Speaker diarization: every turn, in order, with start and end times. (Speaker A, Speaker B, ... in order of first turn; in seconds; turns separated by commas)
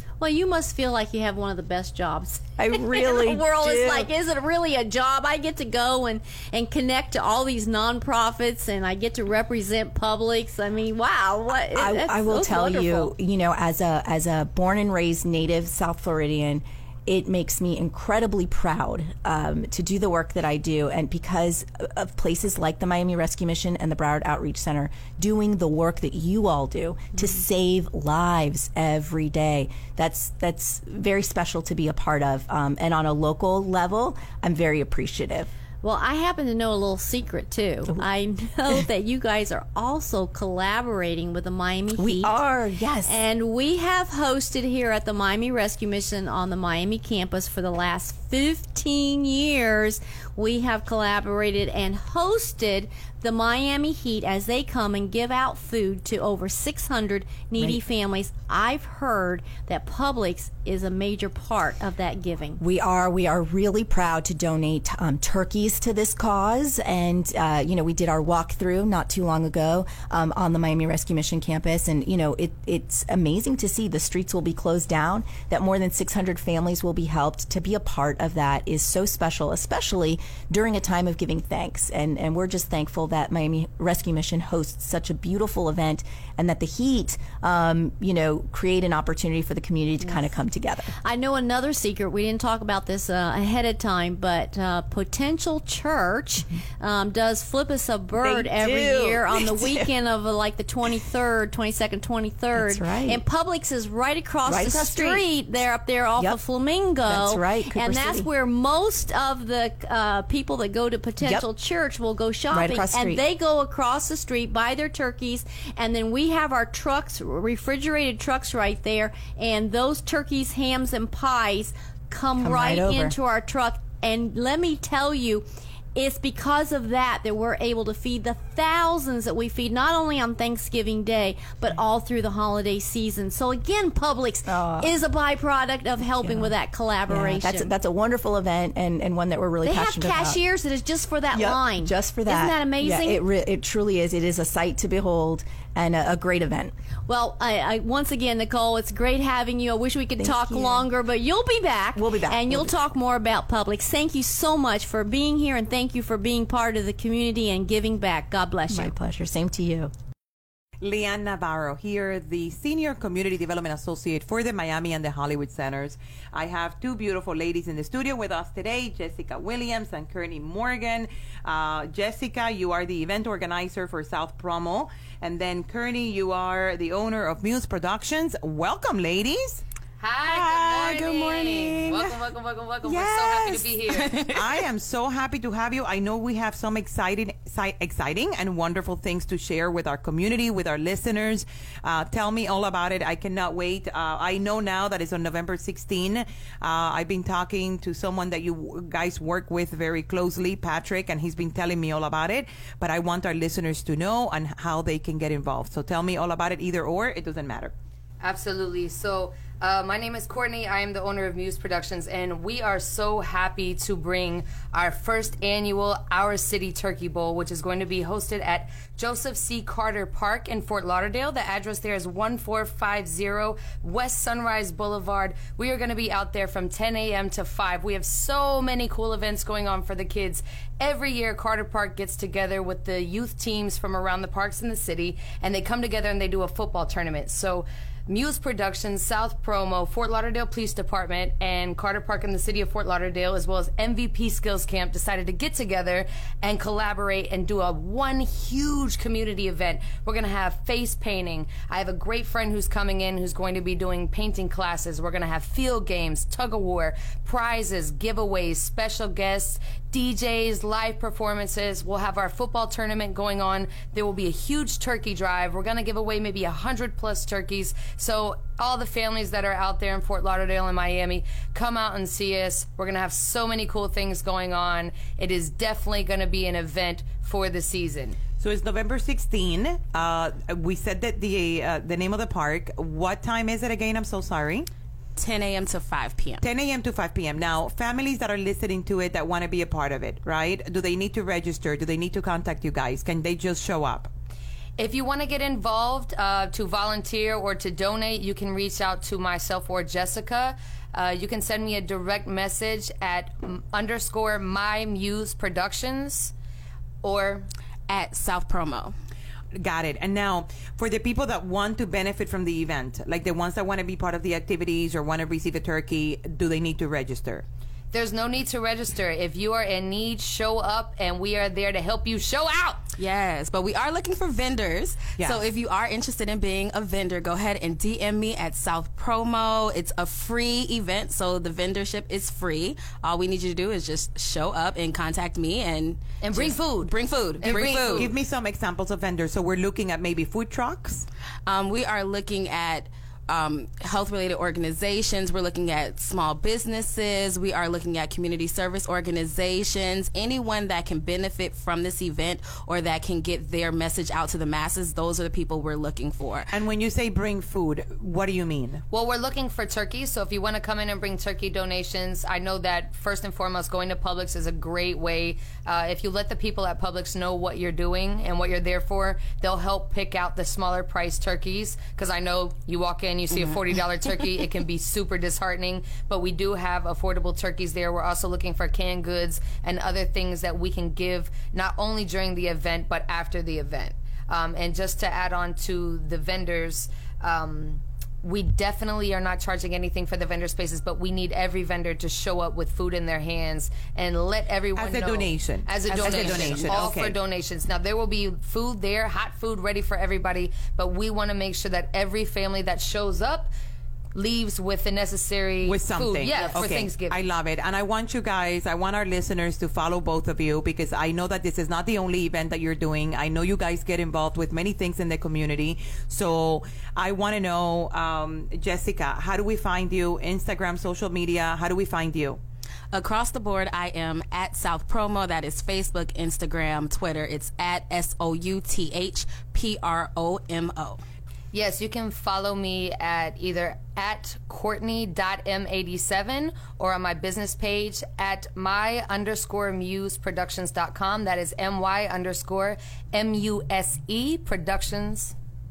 Speaker A: 0.2-13.1, Speaker B: 2.6-4.1, Speaker B: 11.7-35.5, Speaker A: 35.8-42.3, Speaker B: 42.0-43.2, Speaker A: 43.0-62.6, Speaker B: 62.6-90.9, Speaker A: 91.0-137.7, Speaker B: 98.2-99.9, Speaker B: 102.5-103.2, Speaker B: 104.5-105.2, Speaker B: 107.0-108.3, Speaker B: 112.5-113.2, Speaker B: 122.4-123.2, Speaker B: 134.5-135.0, Speaker B: 136.2-136.5, Speaker B: 137.1-140.4, Speaker A: 139.6-143.2, Speaker B: 141.3-146.7, Speaker A: 147.1-158.9, Speaker B: 150.2-150.9, Speaker B: 151.9-152.7, Speaker B: 158.7-159.9, Speaker C: 160.8-179.6, Speaker D: 180.0-184.1, Speaker E: 180.2-182.2, Speaker E: 182.8-184.7, Speaker C: 184.3-207.7, Speaker D: 208.2-278.2, Speaker C: 278.4-284.7, Speaker E: 285.1-286.4, Speaker C: 286.4-294.1, Speaker D: 294.8-306.3, Speaker D: 307.0-307.5, Speaker E: 307.9-308.9, Speaker C: 309.6-317.4, Speaker D: 317.9-322.8, Speaker E: 323.0-338.1, Speaker C: 325.2-325.5, Speaker D: 336.2-338.1, Speaker C: 337.4-341.1, Speaker E: 341.4-356.5, Speaker C: 356.5-358.8, Speaker D: 358.9-403.5, Speaker E: 373.3-374.4, Speaker C: 394.8-397.2, Speaker E: 395.9-397.0, Speaker D: 404.1-407.2, Speaker C: 405.6-422.4, Speaker E: 406.3-406.7, Speaker E: 422.9-431.0, Speaker D: 431.5-445.3